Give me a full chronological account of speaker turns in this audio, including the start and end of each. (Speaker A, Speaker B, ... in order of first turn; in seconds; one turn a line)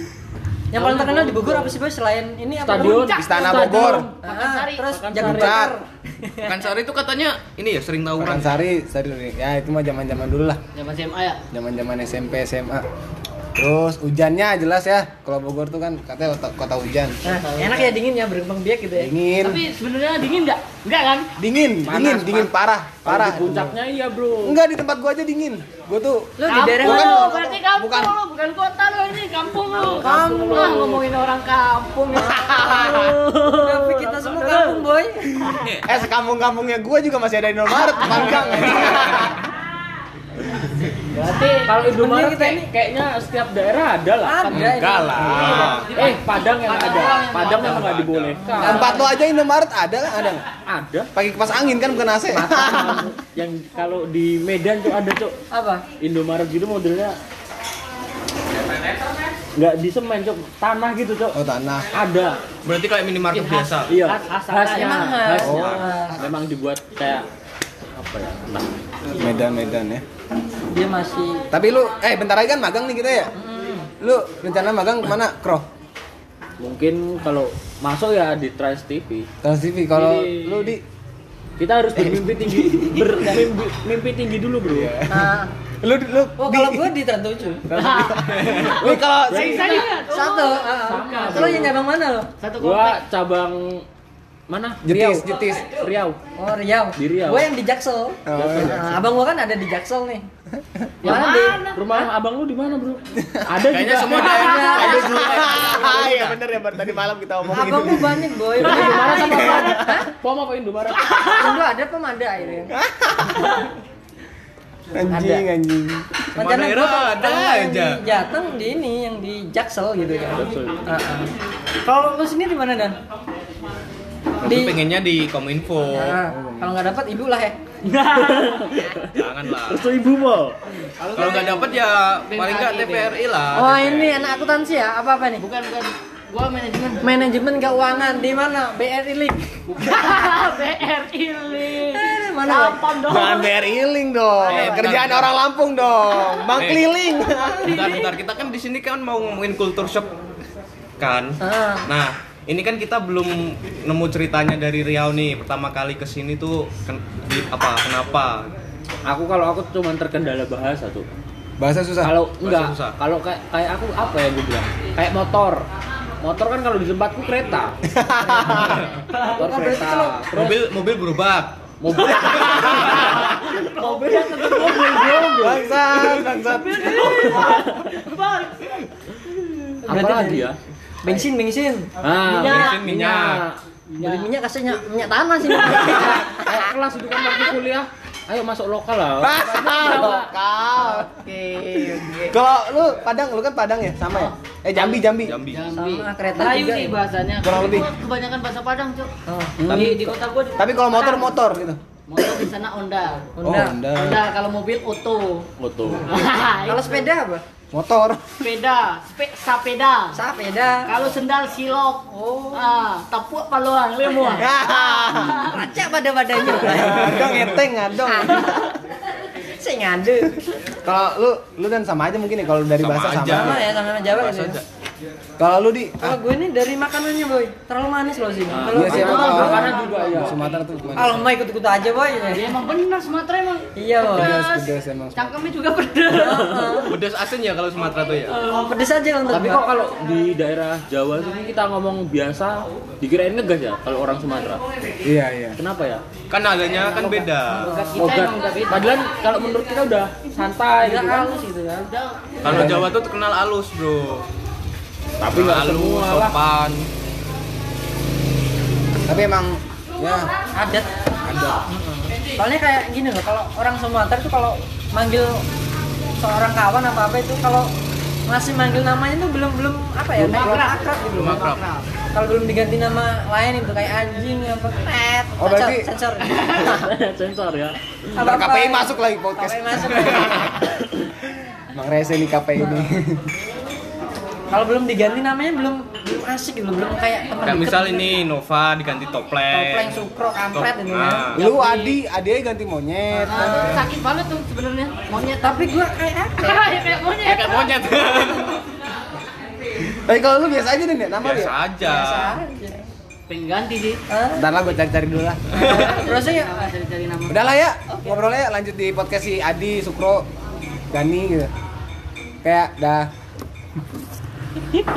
Speaker A: 0.7-3.0
Speaker B: 0.7-1.8
Speaker B: 2.6-4.2
Speaker C: 2.7-4.9
Speaker D: 3.1-4.1
Speaker A: 4.2-6.5
Speaker B: 4.8-5.7
Speaker D: 5.1-5.8
Speaker E: 6.4-8.5
Speaker D: 8.2-10.6
Speaker C: 10.7-11.4
Speaker D: 11.5-12.8
Speaker D: 13.5-17.2
Speaker C: 17.2-18.0
Speaker A: 17.2-19.1
Speaker D: 18.9-19.6
Speaker C: 19.4-21.3
Speaker D: 21.4-23.7
Speaker B: 21.8-22.5
Speaker B: 23.0-24.6
Speaker D: 24.4-28.1
Speaker A: 26.4-27.5
Speaker C: 26.5-35.7
Speaker A: 29.9-30.9
Speaker B: 30.0-31.0
Speaker D: 32.1-33.1
Speaker B: 33.0-34.1
Speaker A: 33.6-35.3
Speaker D: 35.8-39.4
Speaker C: 37.9-38.8
Speaker C: 41.1-41.7
Speaker A: 41.7-42.7
Speaker B: 41.7-44.6
Speaker A: 44.2-45.4
Speaker E: 44.5-46.0
Speaker D: 44.5-45.7
Speaker C: 45.2-47.9
Speaker B: 45.8-49.0
Speaker E: 47.5-48.5
Speaker A: 48.3-49.1
Speaker D: 48.6-50.4
Speaker C: 48.6-49.0
Speaker B: 50.6-51.1
Speaker D: 51.1-53.1
Speaker B: 52.3-55.4
Speaker A: 52.6-53.1
Speaker A: 55.5-55.9
Speaker B: 55.9-57.1
Speaker B: 59.5-61.4
Speaker D: 61.3-61.9
Speaker B: 61.9-62.4
Speaker E: 62.6-63.9
Speaker C: 63.3-65.4
Speaker B: 63.9-67.2
Speaker A: 64.6-66.2
Speaker D: 65.4-65.8
Speaker E: 65.5-65.8
Speaker B: 68.0-68.7
Speaker D: 69.1-70.0
Speaker A: 70.7-71.4
Speaker D: 71.5-73.3
Speaker A: 73.3-73.9
Speaker D: 74.0-75.6
Speaker B: 76.6-79.3
Speaker D: 79.4-80.8
Speaker B: 79.9-80.8
Speaker B: 81.6-85.0
Speaker D: 82.0-82.5
Speaker C: 82.8-83.1
Speaker D: 84.6-86.9
Speaker A: 85.1-85.5
Speaker A: 86.4-87.6
Speaker D: 87.7-89.7
Speaker C: 87.7-91.7
Speaker B: 88.8-90.2
Speaker A: 89.6-92.3
Speaker B: 90.8-91.8
Speaker C: 92.4-93.0
Speaker B: 92.6-93.8
Speaker B: 94.5-96.2
Speaker D: 94.8-95.7
Speaker A: 96.4-100.2
Speaker B: 97.0-97.5
Speaker D: 98.2-99.0
Speaker B: 98.3-99.1
Speaker C: 101.0-101.9
Speaker A: 101.0-101.6
Speaker B: 101.7-105.2
Speaker D: 103.2-103.6
Speaker E: 103.6-106.4
Speaker A: 104.1-105.0
Speaker C: 104.5-105.0
Speaker D: 104.9-110.0
Speaker A: 107.5-110.1
Speaker B: 108.5-111.5
Speaker A: 111.4-112.7
Speaker D: 112.7-113.6
Speaker D: 114.9-116.1
Speaker A: 115.1-115.4
Speaker E: 116.3-118.1
Speaker A: 116.3-121.3
Speaker B: 120.3-120.9
Speaker A: 121.8-123.0
Speaker E: 124.4-126.2
Speaker A: 124.5-124.8
Speaker A: 125.9-127.5
Speaker D: 126.3-126.7
Speaker B: 127.9-130.6
Speaker E: 129.1-129.9
Speaker C: 130.9-133.2
Speaker E: 131.1-134.5
Speaker A: 133.5-135.4
Speaker C: 135.4-137.1
Speaker A: 137.0-139.4
Speaker C: 139.7-143.5
Speaker A: 141.9-142.7
Speaker D: 143.1-147.8
Speaker C: 144.4-145.0
Speaker E: 144.5-145.3
Speaker E: 146.5-146.8
Speaker E: 147.6-150.1
Speaker C: 147.8-148.0
Speaker E: 151.0-158.5
Speaker A: 151.5-151.8
Speaker B: 159.1-161.1
Speaker D: 161.6-162.1
Speaker B: 162.0-165.7
Speaker E: 162.4-162.9
Speaker B: 166.2-167.7
Speaker D: 167.9-168.8
Speaker B: 169.2-170.6
Speaker A: 169.4-170.2
Speaker E: 170.2-171.6
Speaker B: 171.8-175.5
Speaker E: 172.1-173.1
Speaker C: 173.1-178.8
Speaker D: 175.3-177.6
Speaker A: 179.8-180.4
Speaker B: 179.8-181.3
Speaker A: 181.0-181.9
Speaker B: 182.0-184.2
Speaker C: 182.1-182.8
Speaker E: 182.4-183.4
Speaker A: 182.5-182.7
Speaker C: 183.9-184.3
Speaker A: 184.1-186.7
Speaker B: 185.6-190.3
Speaker D: 189.2-191.2
Speaker C: 189.5-192.3
Speaker D: 192.3-195.4
Speaker C: 194.1-199.1
Speaker E: 195.2-195.7
Speaker A: 195.8-196.9
Speaker D: 197.4-197.9
Speaker A: 199.3-199.6
Speaker D: 199.6-200.0
Speaker C: 199.7-201.4
Speaker B: 199.7-200.0
Speaker D: 200.6-201.8
Speaker C: 202.1-203.3
Speaker A: 203.4-203.8
Speaker D: 203.4-204.2
Speaker C: 203.9-205.4
Speaker B: 205.6-206.1
Speaker C: 206.1-207.1
Speaker A: 206.7-207.4
Speaker D: 207.7-208.3
Speaker C: 208.4-210.2
Speaker A: 210.1-210.8
Speaker C: 210.8-214.5
Speaker A: 212.1-212.7
Speaker D: 214.3-215.5
Speaker A: 214.6-217.3
Speaker C: 215.1-215.6
Speaker D: 216.3-218.6
Speaker E: 216.9-217.3
Speaker A: 218.1-218.7
Speaker A: 219.6-220.4
Speaker D: 220.8-223.7
Speaker E: 222.8-224.6
Speaker A: 223.5-224.6
Speaker D: 225.4-226.2
Speaker A: 226.0-230.2
Speaker B: 228.5-230.4
Speaker D: 228.7-231.3
Speaker C: 228.8-230.4
Speaker A: 231.0-232.5
Speaker C: 232.3-236.9
Speaker A: 233.8-234.4
Speaker D: 234.1-235.4
Speaker A: 236.2-236.9
Speaker B: 236.3-236.8
Speaker E: 236.8-238.4
Speaker C: 238.3-238.7
Speaker A: 238.6-239.6
Speaker B: 239.3-244.6
Speaker D: 245.0-245.6
Speaker B: 245.6-246.0
Speaker E: 246.3-247.7
Speaker C: 246.6-249.0
Speaker A: 247.6-248.0
Speaker B: 247.9-251.4
Speaker A: 250.8-251.9
Speaker C: 251.8-252.4
Speaker E: 252.4-254.3
Speaker D: 252.4-252.9
Speaker B: 255.2-256.4
Speaker E: 255.2-256.8
Speaker D: 259.1-260.3
Speaker A: 260.5-260.9
Speaker D: 261.2-261.6
Speaker A: 261.7-265.3
Speaker A: 266.1-267.7
Speaker A: 268.3-271.3
Speaker C: 270.1-271.9
Speaker E: 271.1-271.6
Speaker A: 272.1-276.4
Speaker D: 275.4-275.9
Speaker B: 276.3-278.4
Speaker D: 278.2-280.5
Speaker A: 278.2-280.6
Speaker D: 281.7-283.3
Speaker A: 282.6-282.9
Speaker A: 284.5-288.1
Speaker E: 287.4-291.5
Speaker A: 289.5-291.3
Speaker D: 291.3-293.9
Speaker C: 291.4-292.0
Speaker A: 293.1-293.8
Speaker C: 293.3-295.7
Speaker A: 295.4-296.6
Speaker C: 296.4-297.7
Speaker E: 297.2-298.6
Speaker D: 299.9-301.5
Speaker E: 301.2-302.3
Speaker A: 302.0-302.9
Speaker C: 302.1-302.4
Speaker C: 303.3-304.0
Speaker A: 304.1-304.4
Speaker D: 304.3-305.4
Speaker E: 305.5-305.8
Speaker C: 305.5-307.4
Speaker A: 305.6-306.7
Speaker D: 307.3-310.2
Speaker D: 310.9-311.5
Speaker D: 312.4-313.1